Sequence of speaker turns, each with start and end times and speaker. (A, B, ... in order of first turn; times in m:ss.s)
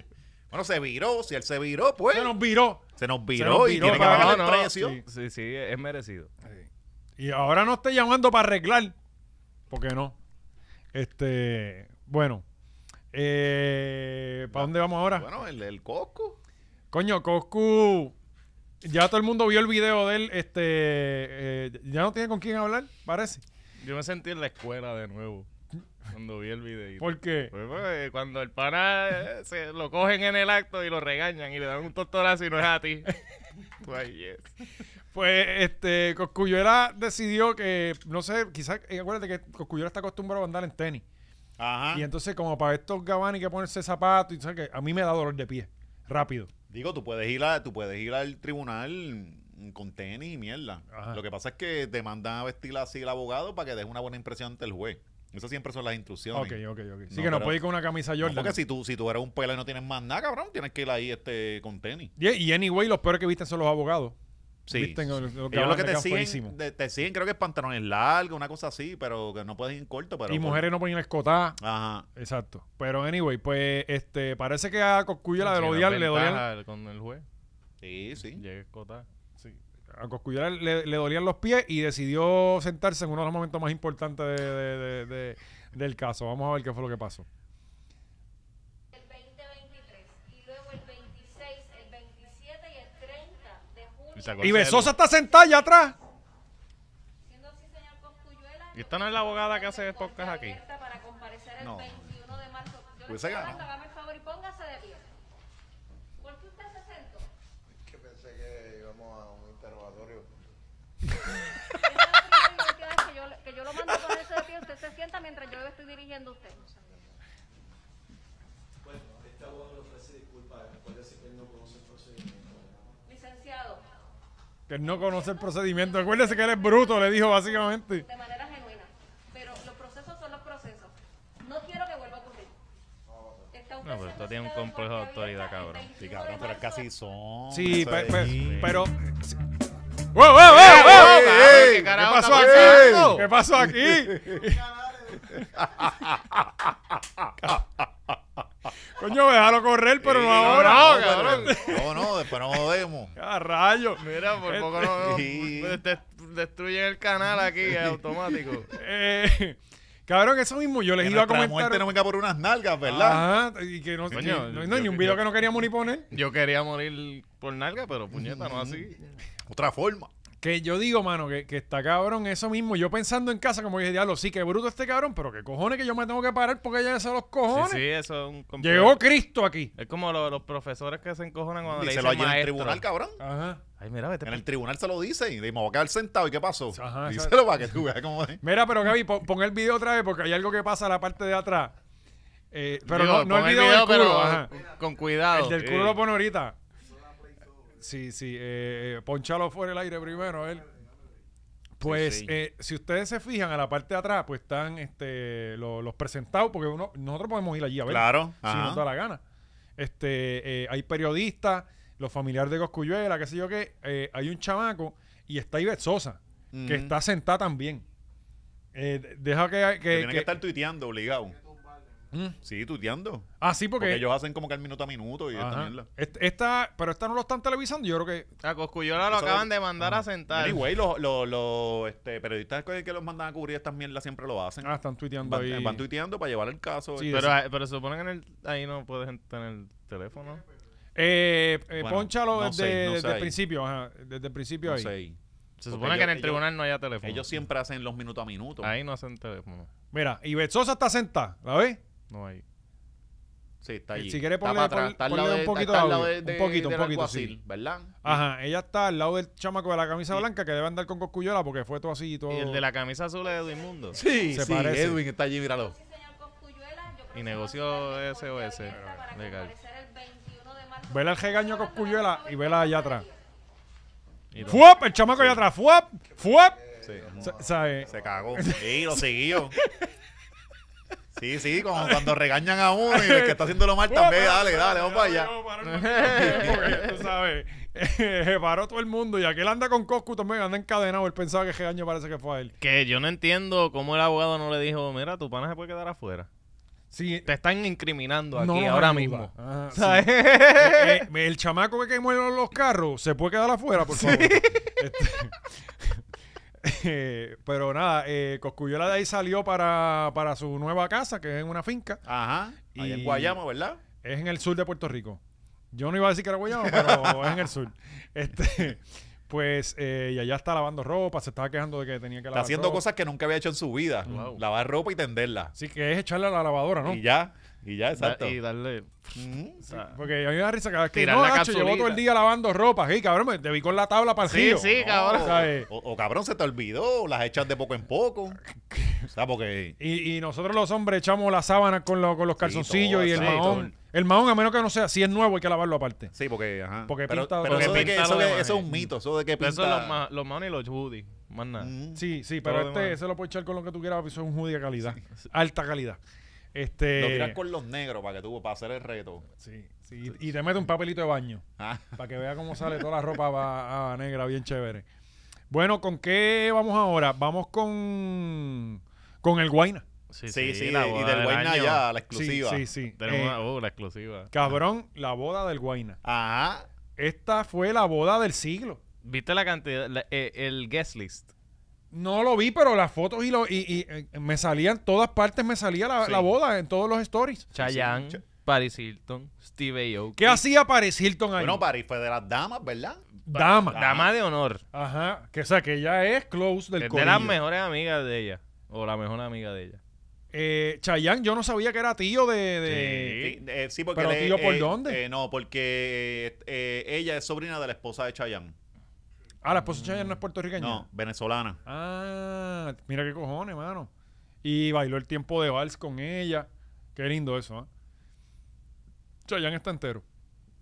0:00.5-0:02.4 A
0:02.1-0:02.8 B
0:03.0-0:05.0 A
0:03.3-0:05.0 B
0:03.8-0:06.3 C
0:06.4-0:08.9 B
0:09.7-0:10.2 B
0:10.9-0:12.4 B
0:13.1-0:15.3 B
0:14.5-0:16.4 A
0:16.9-0:18.1 B
0:18.8-0:23.4 B
0:23.8-0:25.5 C
0:26.1-0:33.1 C
0:27.0-0:27.5 B
0:33.8-0:34.5 C
0:35.1-0:41.0 B
0:41.6-0:42.1 A
0:41.9-0:46.5 B
0:46.7-0:56.6 A
0:50.9-0:51.2 B
0:56.3-0:58.6 B
0:57.1-0:57.6 A
0:58.2-1:02.1 A
1:02.2-1:04.2 B
1:04.6-1:10.7 A
1:04.7-1:06.5 B
1:10.3-1:11.6 B
1:11.6-1:12.1 A
1:12.2-1:16.4 B
1:15.4-1:17.2 C
1:17.8-1:18.4 A
1:18.3-1:19.0 C
1:19.4-1:27.2 B
1:28.9-1:34.8 D
1:34.2-1:34.9 C
1:34.4-1:36.0 B
1:37.2-1:45.1 D
1:38.7-1:40.6 C
1:41.6-1:42.1 A
1:43.0-1:43.6 A
1:46.2-1:47.3 D
1:47.8-1:50.4 E
1:51.7-1:56.9 D
1:59.1-2:02.6 E
2:03.0-2:03.8 D
2:04.7-2:08.0 B
2:07.9-2:12.5 D
2:13.5-2:16.9 D
2:13.8-2:15.9 C
2:16.0-2:18.8 A
2:17.5-2:19.4 B
2:18.3-2:18.7 C
2:20.1-2:24.6 B
2:20.5-2:24.5 A
2:20.5-2:23.2 C
2:25.2-2:25.5 B
2:25.3-2:28.4 A
2:28.9-2:32.1 B
2:30.0-2:33.1 A
2:30.3-2:31.6 C
2:33.2-2:35.0 B
2:34.0-2:38.7 C
2:35.0-2:35.8 A
2:37.7-2:38.0 A
2:38.7-2:41.9 B
2:41.0-2:43.3 A
2:42.8-2:46.1 B
2:44.1-2:45.5 C
2:46.1-2:49.0 C
2:48.1-2:48.9 A
2:49.5-2:50.1 A
2:50.4-2:57.8 B
2:57.5-2:59.0 C
2:58.6-2:59.7 B
2:59.8-3:02.8 C
3:01.7-3:03.2 A
3:03.2-3:03.6 B
3:03.8-3:04.4 C
3:04.2-3:08.4 A
3:06.7-3:07.4 B
3:08.4-3:11.7 B
3:12.5-3:14.5 B
3:12.8-3:16.0 C
3:15.3-3:16.6 B
3:17.8-3:20.7 B
3:21.8-3:29.2 B
3:21.8-3:22.3 A
3:27.8-3:28.8 A
3:29.8-3:37.8 B
3:36.5-3:37.0 A
3:38.7-3:40.3 B
3:39.9-3:41.4 A
3:42.4-3:45.9 A
3:43.4-3:44.0 B
3:45.3-3:48.3 B
3:48.4-3:50.6 C
3:49.0-3:49.5 A
3:50.3-3:57.2 A
3:54.6-3:55.8 B
3:57.0-3:57.3 B
3:57.1-4:00.4 C
4:01.0-4:04.9 B
4:01.8-4:03.4 A
4:04.6-4:05.2 A
4:05.6-4:07.3 C
4:05.7-4:06.4 A
4:07.0-4:08.7 A
4:08.6-4:09.7 C
4:09.9-4:11.8 B
4:12.1-4:12.4 C
4:13.6-4:18.2 A
4:13.9-4:17.4 B
4:18.0-4:22.6 B
4:22.3-4:24.0 C
4:23.9-4:25.7 A
4:24.3-4:25.0 B
4:25.5-4:33.1 D
4:27.1-4:29.5 C
4:28.7-4:29.0 B
4:30.9-4:33.1 B
4:34.3-4:34.6 C
4:34.4-4:36.6 B
4:35.1-4:35.4 A
4:36.5-4:38.4 E
4:36.8-4:37.3 A
4:37.2-4:39.9 B
4:37.9-4:39.5 A
4:41.2-4:45.3 A
4:41.8-4:42.2 B
4:42.9-4:52.5 B
4:45.6-4:47.0 C
4:46.0-4:46.8 A
4:52.6-4:56.3 C
4:56.9-4:57.3 B
4:57.2-5:01.1 C
4:58.3-5:06.0 B
5:03.9-5:04.7 C
5:06.6-5:12.0 B
5:12.0-5:13.8 A
5:12.7-5:13.4 B
5:14.0-5:15.2 B
5:15.7-5:22.8 B
5:16.5-5:17.5 A
5:22.3-5:25.5 A
5:24.0-5:24.4 B
5:24.1-5:24.4 C
5:25.6-5:27.0 B
5:26.8-5:28.4 A
5:28.0-5:30.0 C
5:29.2-5:29.6 A
5:29.7-5:34.7 B
5:30.9-5:32.0 C
5:34.2-5:35.4 C
5:34.6-5:38.4 A
5:35.2-5:35.7 B
5:38.5-5:39.1 B
5:39.1-5:39.8 A
5:39.8-5:46.1 B
5:42.4-5:43.7 A
5:43.2-5:43.7 C
5:46.1-5:50.0 A
5:46.9-5:48.0 B
5:47.5-5:48.7 C
5:49.4-5:51.7 C
5:51.6-5:52.0 A
5:52.0-5:56.0 B
5:52.4-5:53.0 C
5:56.5-5:57.4 B
5:56.9-5:59.2 A
5:59.4-6:01.4 B
6:01.6-6:02.0 A
6:01.9-6:04.8 B
6:05.5-6:09.8 B
6:10.1-6:11.8 C
6:10.3-6:12.7 A
6:12.1-6:13.4 B
6:13.0-6:14.3 C
6:14.3-6:16.0 B
6:16.0-6:16.7 A
6:17.0-6:18.8 B
6:19.0-6:21.3 C
6:21.9-6:27.5 B
6:27.5-6:30.4 C
6:27.6-6:28.2 A
6:30.2-6:31.6 B
6:31.3-6:33.0 A
6:33.3-6:33.8 B
6:33.3-6:34.6 C
6:33.7-6:34.1 A
6:34.7-6:37.3 B
6:36.8-6:39.8 C
6:40.3-6:43.2 B
6:42.7-6:43.3 C
6:43.0-6:48.6 A
6:43.9-6:45.0 B
6:49.4-6:50.8 B
6:49.6-6:50.2 C
6:50.6-6:51.6 A
6:51.6-6:53.9 B
6:54.4-6:57.7 B
6:59.2-7:00.0 B